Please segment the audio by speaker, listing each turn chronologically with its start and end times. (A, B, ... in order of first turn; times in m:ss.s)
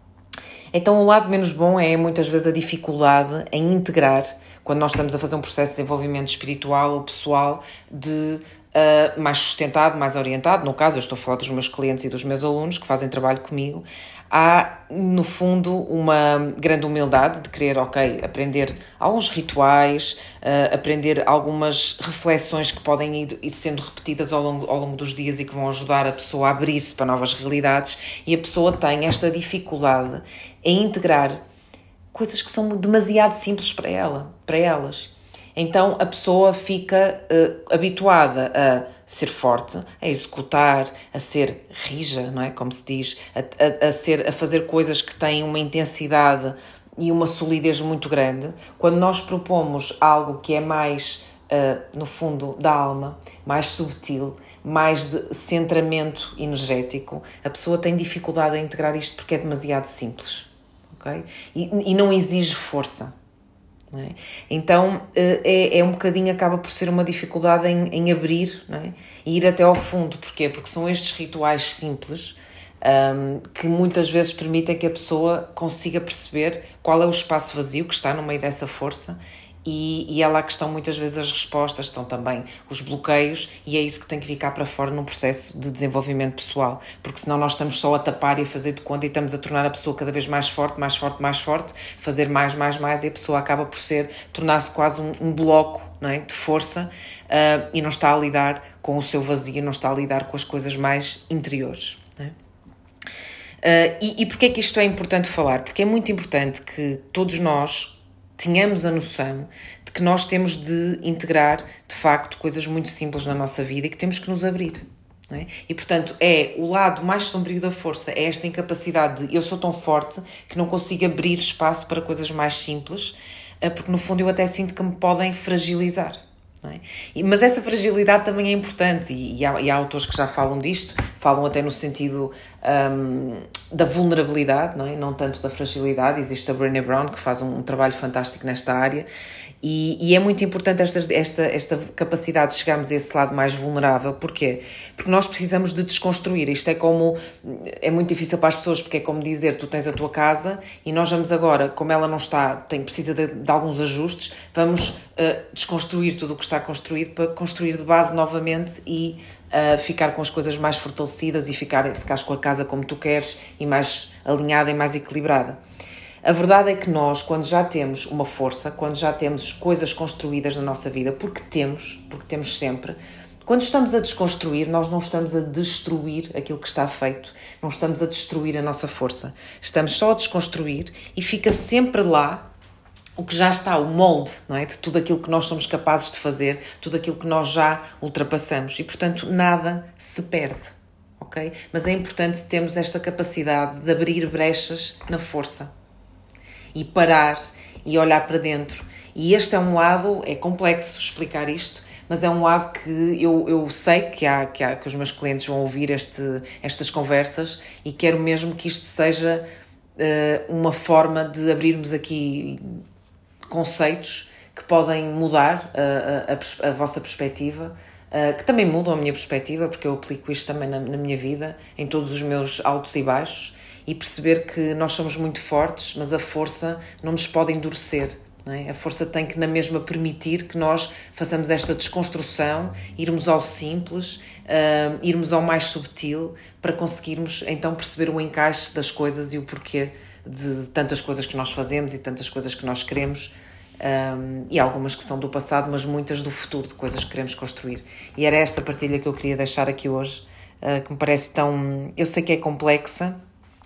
0:00.7-0:31.4 A
0:32.1-1:03.1 A
1:03.9-1:42.3 A
1:43.6-2:19.1 A
2:19.6-2:45.6 A
2:46.2-3:02.4 A
3:03.2-3:15.7 A
3:16.7-3:29.4 A
3:30.0-3:32.8 A
3:33.5-4:13.2 A